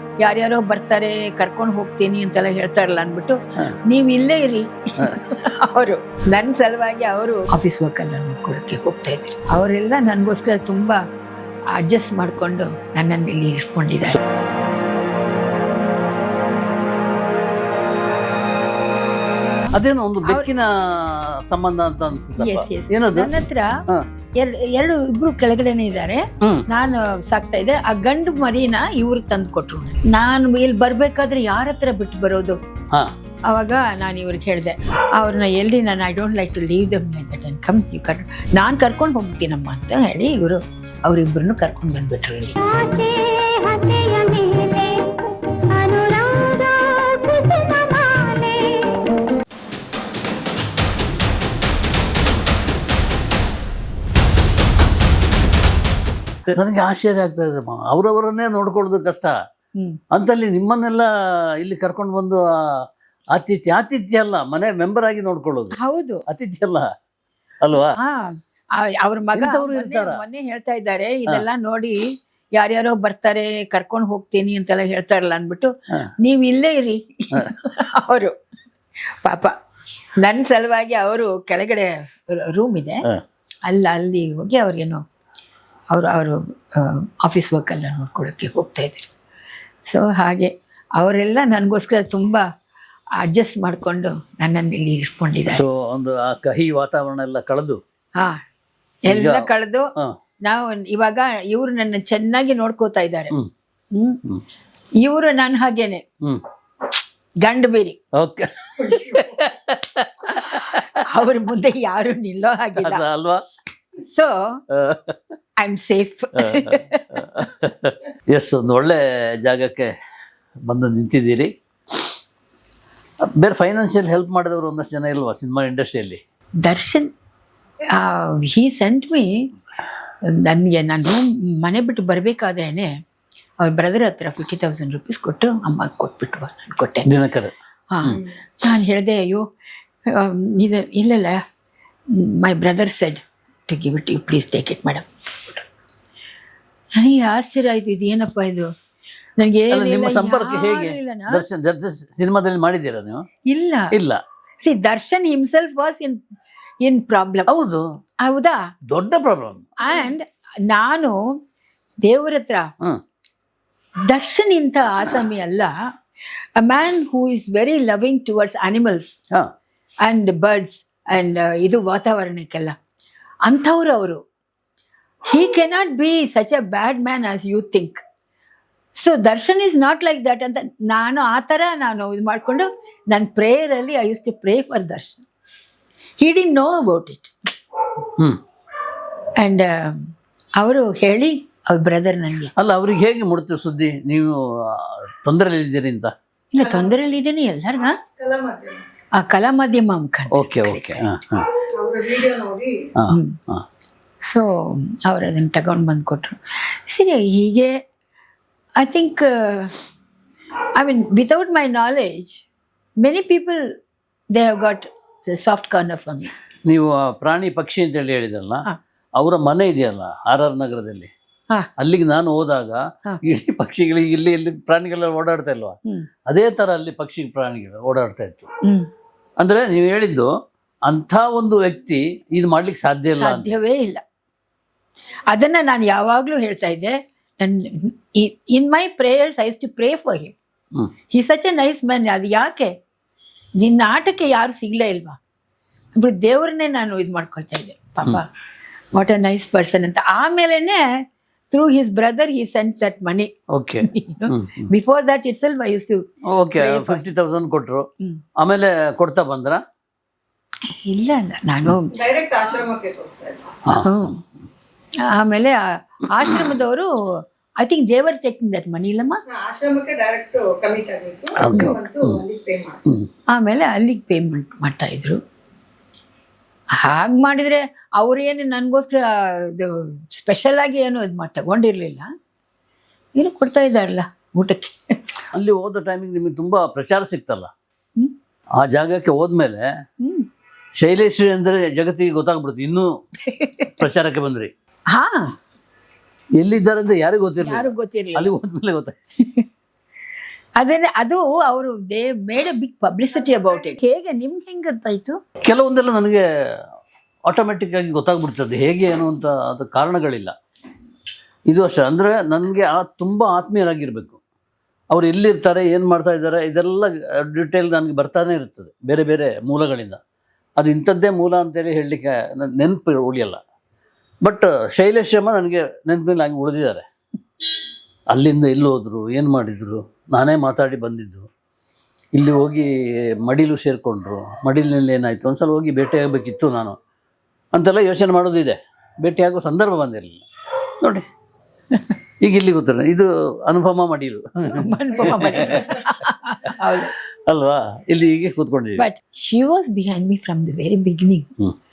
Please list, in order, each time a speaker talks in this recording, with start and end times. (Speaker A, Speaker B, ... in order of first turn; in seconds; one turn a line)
Speaker A: 0.2-3.4
Speaker A: 3.9-11.0
Speaker A: 11.8-14.2
Speaker B: 19.7-23.3
Speaker A: 22.4-23.7
Speaker A: 24.4-32.6
Speaker A: 33.5-42.6
Speaker C: 42.7-48.9
Speaker B: 56.5-59.4
Speaker B: 60.1-62.8
Speaker B: 63.4-65.8
Speaker A: 65.8-66.2
Speaker B: 66.3-66.9
Speaker B: 67.6-68.0
Speaker A: 68.0-72.0
Speaker B: 69.3-70.2
Speaker A: 72.6-78.3
Speaker A: 79.2-79.5
Speaker A: 80.2-83.0
Speaker A: 83.7-85.0
Speaker A: 85.9-89.1
Speaker A: 89.9-92.4
Speaker A: 93.2-95.6
Speaker B: 95.5-97.8
Speaker A: 99.1-99.9
Speaker B: 99.1-100.1
Speaker A: 100.5-103.3
Speaker A: 104.0-104.2
Speaker A: 105.0-106.0
Speaker A: 107.4-108.0
Speaker B: 108.2-111.0
Speaker A: 110.4-113.0
Speaker B: 112.8-113.4
Speaker A: 114.0-114.6
Speaker B: 114.7-115.2
Speaker A: 115.6-117.5
Speaker B: 116.4-119.9
Speaker B: 120.7-121.5
Speaker B: 123.4-126.2
Speaker A: 126.6-127.1
Speaker A: 128.0-129.5
Speaker A: 130.3-132.9
Speaker A: 133.6-137.1
Speaker B: 137.1-137.5
Speaker A: 137.9-139.4
Speaker A: 140.1-141.4
Speaker A: 142.2-145.7
Speaker A: 147.0-148.7
Speaker A: 149.4-151.4
Speaker B: 149.7-153.2
Speaker A: 153.5-153.9
Speaker B: 153.9-154.2
Speaker A: 154.6-156.2
Speaker A: 156.8-157.5
Speaker B: 157.5-157.8
Speaker A: 158.2-158.6
Speaker B: 158.9-159.7
Speaker A: 159.8-161.2
Speaker A: 162.1-162.7
Speaker A: 164.1-165.7
Speaker A: 166.6-169.2
Speaker A: 170.1-172.8
Speaker A: 173.5-174.2
Speaker A: 175.3-178.0
Speaker A: 179.0-185.2
Speaker A: 186.2-187.3
Speaker A: 189.4-190.1
Speaker A: 190.6-192.5
Speaker B: 192.6-196.1
Speaker A: 196.5-197.9
Speaker A: 199.2-201.1
Speaker B: 200.3-201.5
Speaker B: 202.9-203.7
Speaker A: 203.1-203.4
Speaker A: 204.2-207.7
Speaker A: 208.8-209.7
Speaker A: 210.8-212.4
Speaker A: 213.0-213.7
Speaker A: 214.3-216.3
Speaker B: 216.7-218.7
Speaker B: 219.2-221.1
Speaker B: 221.8-225.8
Speaker B: 226.3-228.5
Speaker B: 229.4-230.3
Speaker B: 230.9-233.5
Speaker A: 233.2-234.0
Speaker A: 235.3-240.4
Speaker A: 241.1-242.7
Speaker A: 243.6-245.2
Speaker A: 246.0-248.3
Speaker A: 248.9-250.8
Speaker A: 251.5-253.3
Speaker B: 253.5-254.7
Speaker A: 253.8-256.0
Speaker B: 256.3-257.9
Speaker A: 256.5-257.1
Speaker B: 258.4-259.6
Speaker A: 260.9-262.2
Speaker C: 262.9-263.3
Speaker B: 263.6-263.9
Speaker A: 263.8-264.2
Speaker A: 265.1-266.9
Speaker A: 267.6-269.2
Speaker C: 269.5-271.2
Speaker B: 271.3-272.3
Speaker C: 272.4-272.7
Speaker A: 273.3-275.2
Speaker A: 276.8-282.1
Speaker A: 283.2-284.8
Speaker B: 285.3-287.5
Speaker B: 288.6-289.7
Speaker B: 290.8-292.9
Speaker A: 293.2-293.8
Speaker B: 293.8-294.5
Speaker A: 294.9-295.3
Speaker B: 296.4-299.0
Speaker A: 297.4-298.3
Speaker A: 300.6-305.2
Speaker B: 305.4-306.2
Speaker B: 307.3-310.3
Speaker B: 311.5-314.2
Speaker B: 314.9-320.0
Speaker B: 320.6-323.4
Speaker B: 324.2-326.9
Speaker B: 328.1-331.3
Speaker B: 332.1-332.7
Speaker B: 333.2-336.8
Speaker B: 337.5-340.2
Speaker B: 340.8-341.1
Speaker B: 342.2-345.8
Speaker A: 344.5-346.9
Speaker B: 347.3-348.9
Speaker A: 348.8-351.3